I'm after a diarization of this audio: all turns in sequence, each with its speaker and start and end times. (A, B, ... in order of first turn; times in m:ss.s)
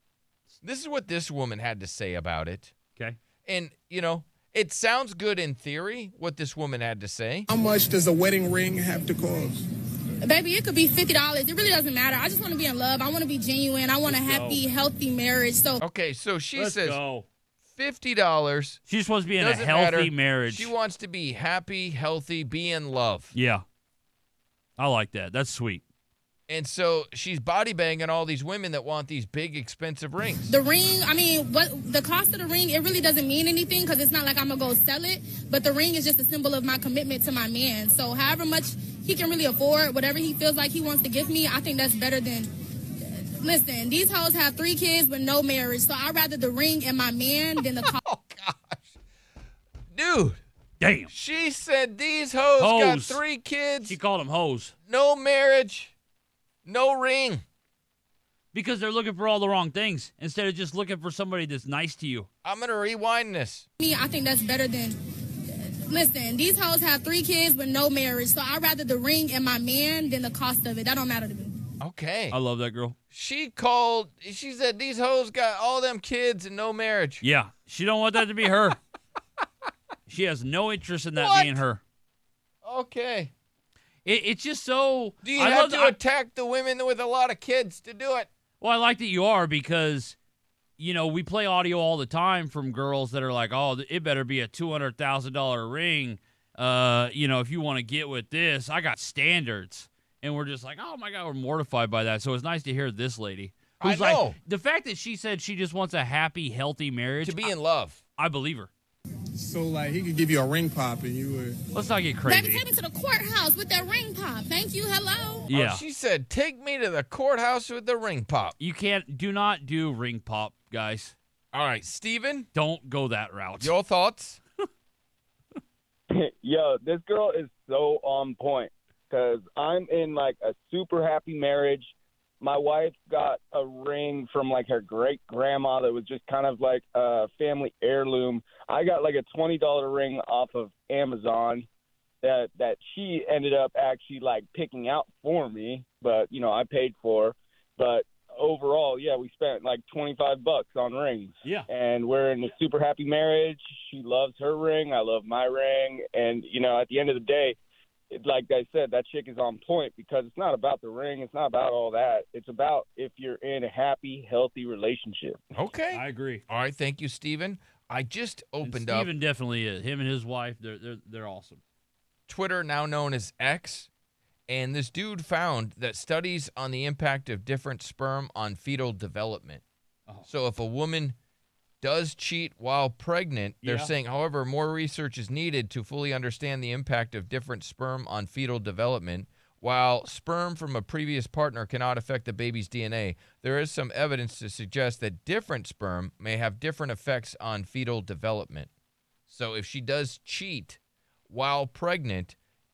0:00.6-0:02.7 A
0:03.4-0:07.5 A
0:07.5-0:09.6 B
0:10.2-0:15.8 C
0:14.0-0:14.6 D
0:15.8-0:17.0 A
0:16.6-0:17.2 D
0:17.7-0:18.8 A
0:18.9-0:20.7 D
0:19.4-0:23.3 A
0:23.3-0:23.6 D
0:24.8-0:25.8 D
0:26.5-0:30.5 A
0:30.4-0:48.0 C
0:47.8-0:48.9 A
0:49.9-0:50.4 A
0:50.8-0:51.1 D
0:51.1-0:54.0 A
0:52.6-0:53.2 D
0:53.8-0:54.7 D
0:54.9-0:55.9 A
0:56.6-0:57.4 A
0:58.5-1:02.3 D
1:02.4-1:03.6 A
1:03.8-1:11.6 C
1:11.8-1:12.4 A
1:12.3-1:13.0 D
1:13.1-1:17.2 A
1:17.2-1:18.8 D
1:20.1-1:21.8 D
1:21.2-1:21.6 A
1:22.6-1:23.3 A
1:24.0-1:26.0 D
1:25.2-1:28.3 A
1:28.6-1:30.2 D
1:30.8-1:47.5 D
1:43.8-1:44.4 A
1:47.2-1:48.0 A
1:48.2-1:48.7 D
1:49.4-1:51.6 B
1:51.7-1:52.6 D
1:52.2-1:55.4 C
1:55.5-1:55.8 D
1:55.5-1:58.6 A
1:58.6-2:01.1 D
2:01.5-2:02.5 A
2:02.5-2:03.7 D
2:03.6-2:04.4 A
2:06.1-2:21.6 E
2:22.2-2:37.6 E
2:38.1-2:45.4 E
2:45.6-2:49.1 A
2:45.9-2:46.4 D
2:48.6-2:51.6 D
2:52.3-2:53.9 A
2:54.5-2:59.6 A
3:00.2-3:01.2 A
3:01.8-3:18.7 A
3:03.6-3:03.9 D
3:19.3-3:22.4 A